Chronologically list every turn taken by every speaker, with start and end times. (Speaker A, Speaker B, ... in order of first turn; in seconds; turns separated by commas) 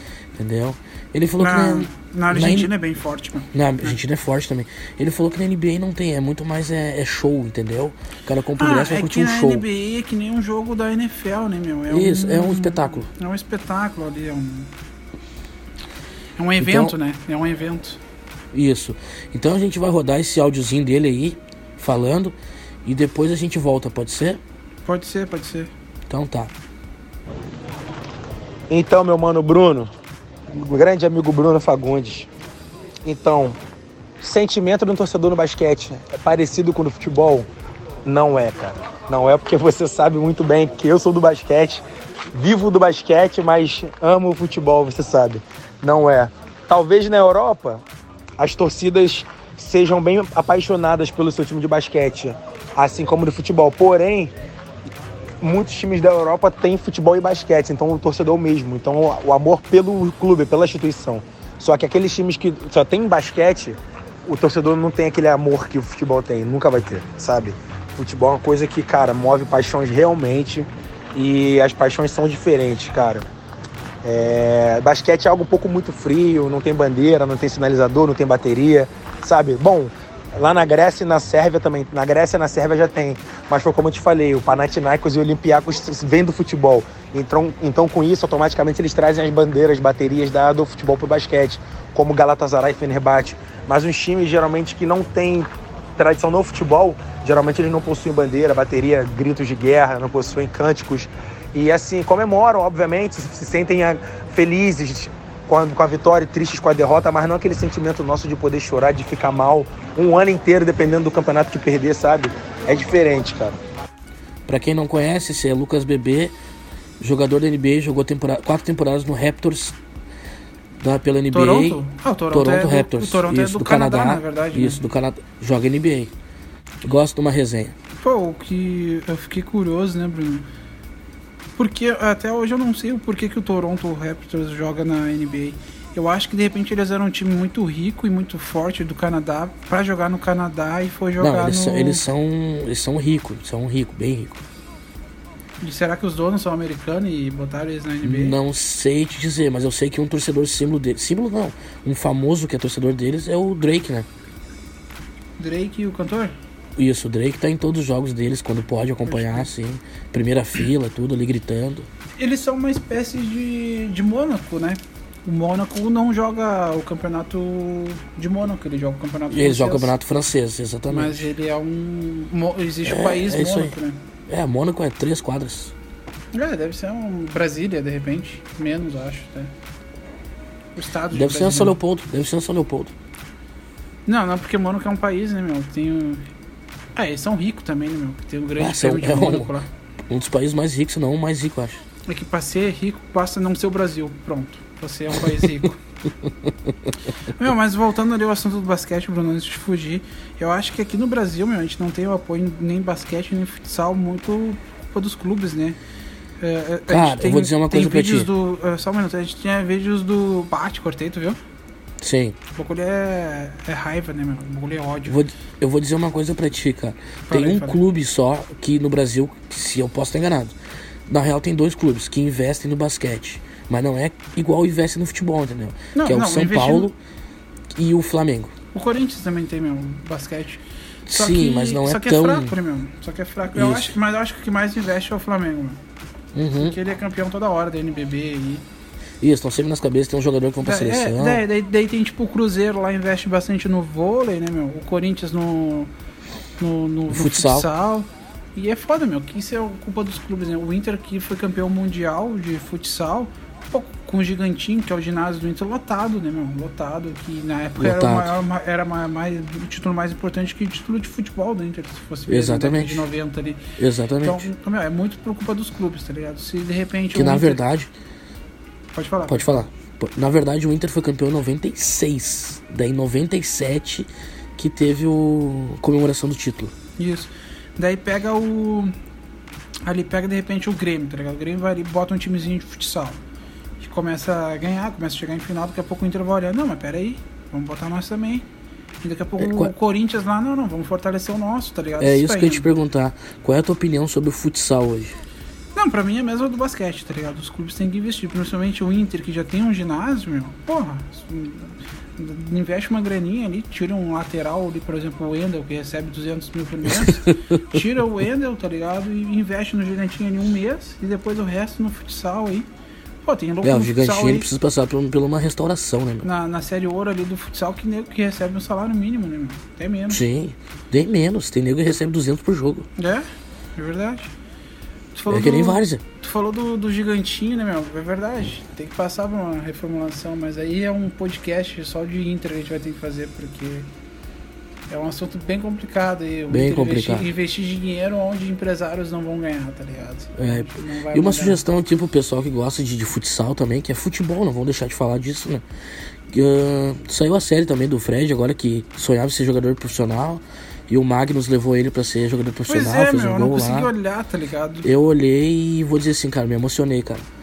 Speaker A: 0.3-2.7, Speaker B: 1.4-3.9, Speaker A: 3.5-9.6, Speaker B: 8.6-14.7, Speaker A: 11.9-13.1, Speaker B: 16.4-18.0, Speaker A: 16.6-16.9, Speaker A: 18.5-24.4, Speaker B: 24.9-25.7, Speaker A: 26.1-26.5, Speaker C: 28.7-29.9, Speaker C: 30.5-32.3, Speaker C: 33.0-33.6, Speaker C: 34.2-37.5, Speaker C: 38.0-47.8, Speaker C: 48.4-54.3, Speaker C: 55.4-73.2, Speaker C: 74.0-113.6, Speaker A: 114.5-116.3, Speaker A: 117.0-119.8, Speaker A: 120.8-126.1, Speaker B: 121.3-124.8, Speaker A: 126.8-127.7, Speaker B: 128.0-130.4, Speaker B: 131.6-142.0, Speaker A: 141.2-144.4, Speaker B: 145.6-148.4, Speaker A: 148.0-154.1, Speaker B: 155.4-156.3, Speaker A: 156.8-161.9, Speaker B: 159.1-159.5, Speaker B: 162.2-169.9, Speaker A: 169.3-171.3, Speaker B: 170.9-174.0, Speaker A: 172.8-173.8, Speaker A: 174.3-175.7, Speaker B: 176.3-179.5, Speaker B: 180.8-181.8, Speaker A: 181.1-182.9, Speaker B: 184.1-186.2, Speaker B: 186.9-189.7, Speaker A: 188.6-189.5, Speaker A: 190.1-191.8, Speaker B: 192.1-195.8, Speaker A: 196.2-196.7, Speaker B: 197.3-205.8, Speaker B: 206.4-211.4, Speaker A: 206.9-208.3, Speaker A: 212.0-212.4, Speaker B: 212.5-215.2, Speaker A: 215.1-220.6, Speaker B: 217.3-217.8, Speaker A: 221.1-226.9, Speaker B: 225.9-226.9, Speaker A: 227.7-228.5, Speaker B: 228.7-235.8, Speaker A: 231.1-232.5, Speaker A: 233.5-233.9, Speaker A: 236.3-236.8, Speaker B: 236.6-238.6, Speaker A: 239.2-241.4, Speaker B: 240.6-245.9, Speaker B: 246.6-263.6, Speaker A: 247.1-247.7, Speaker A: 257.8-258.4, Speaker A: 262.3-263.1, Speaker A: 263.8-264.5, Speaker B: 264.2-267.6, Speaker A: 267.1-267.9, Speaker B: 268.9-269.6, Speaker A: 269.3-276.7, Speaker B: 277.0-278.9, Speaker B: 279.9-283.2, Speaker B: 283.8-288.4, Speaker B: 289.0-292.7, Speaker A: 289.4-289.7, Speaker A: 292.0-295.2, Speaker B: 295.7-312.7, Speaker A: 306.9-307.6, Speaker B: 313.2-314.5, Speaker A: 313.6-316.3, Speaker B: 316.2-320.2, Speaker A: 320.1-322.9, Speaker B: 323.0-324.3, Speaker B: 325.1-333.9, Speaker A: 325.3-326.0, Speaker B: 334.9-341.6, Speaker A: 336.5-337.3, Speaker A: 340.4-345.6, Speaker A: 346.3-353.9, Speaker B: 352.7-354.9, Speaker A: 354.8-357.2